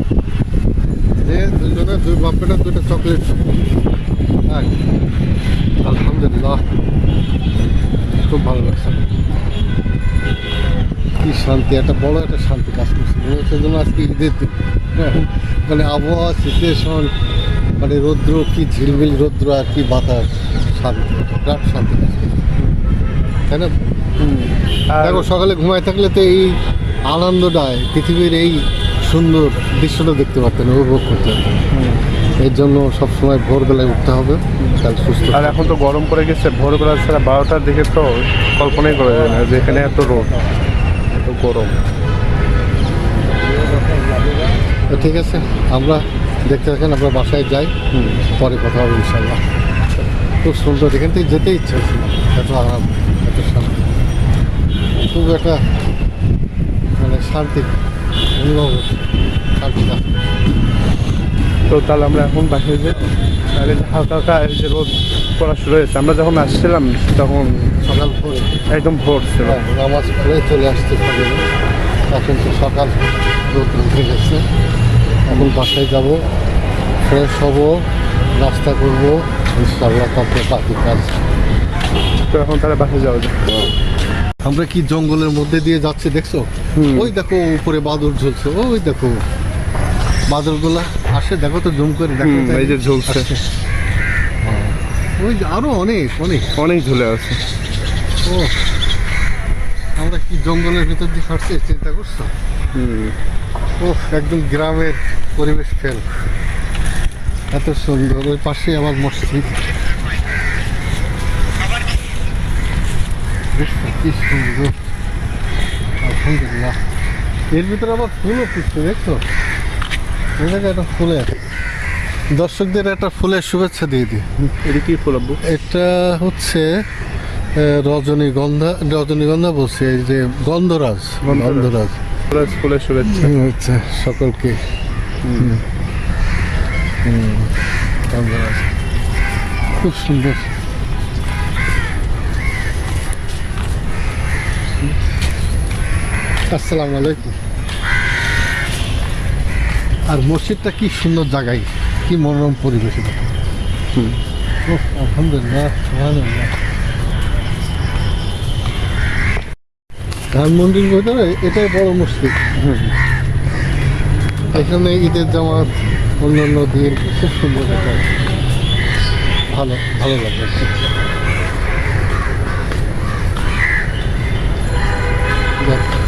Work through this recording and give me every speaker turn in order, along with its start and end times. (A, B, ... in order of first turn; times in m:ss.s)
0:01.2-0:03.6 A
0:04.5-0:04.8 A
0:05.8-0:06.7 A
0:08.2-0:09.1 A
0:11.2-0:17.1 A
0:17.8-0:22.3 A
0:23.5-0:23.8 A
0:24.2-0:25.3 B
0:25.0-0:31.5 A
0:31.7-0:32.0 B
0:32.4-0:35.7 A
0:34.6-0:40.4 B
0:41.1-0:41.8 B
0:44.9-0:47.7 A
0:47.9-0:48.3 B
0:48.3-0:49.4 A
0:50.4-0:53.9 A
0:55.1-0:55.6 A
0:57.0-0:57.8 A
0:58.4-1:00.3 A
1:01.7-1:03.0 B
1:03.5-1:07.7 B
1:07.8-1:08.6 A
1:08.7-1:09.6 B
1:09.4-1:11.4 A
1:12.1-1:14.4 A
1:15.3-1:16.2 A
1:17.0-1:21.2 A
1:22.3-1:23.4 B
1:24.4-1:29.2 A
1:26.8-1:27.1 B
1:30.3-1:33.4 A
1:32.2-1:33.3 B
1:34.4-1:36.5 A
1:36.5-1:37.4 B
1:38.2-1:38.6 A
1:40.0-1:42.3 A
1:42.7-1:43.1 B
1:43.8-1:46.1 A
1:47.5-1:49.6 A
1:53.5-1:54.8 A
1:56.0-1:56.8 A
1:57.5-1:59.2 A
2:00.4-2:01.4 A
2:02.3-2:04.3 A
2:04.4-2:05.4 B
2:05.4-2:06.9 A
2:07.6-2:12.0 A
2:11.2-2:11.7 B
2:12.3-2:13.4 B
2:13.1-2:14.6 A
2:15.2-2:15.5 B
2:15.3-2:15.6 A
2:17.0-2:17.5 A
2:18.1-2:18.7 A
2:19.8-2:20.5 A
2:26.5-2:27.4 A
2:30.1-2:33.4 A
2:34.6-2:36.5 A
2:40.3-2:42.4 A
2:42.6-2:42.9 B
2:44.5-2:48.1 A
2:49.5-2:50.7 A
2:55.6-2:55.9 A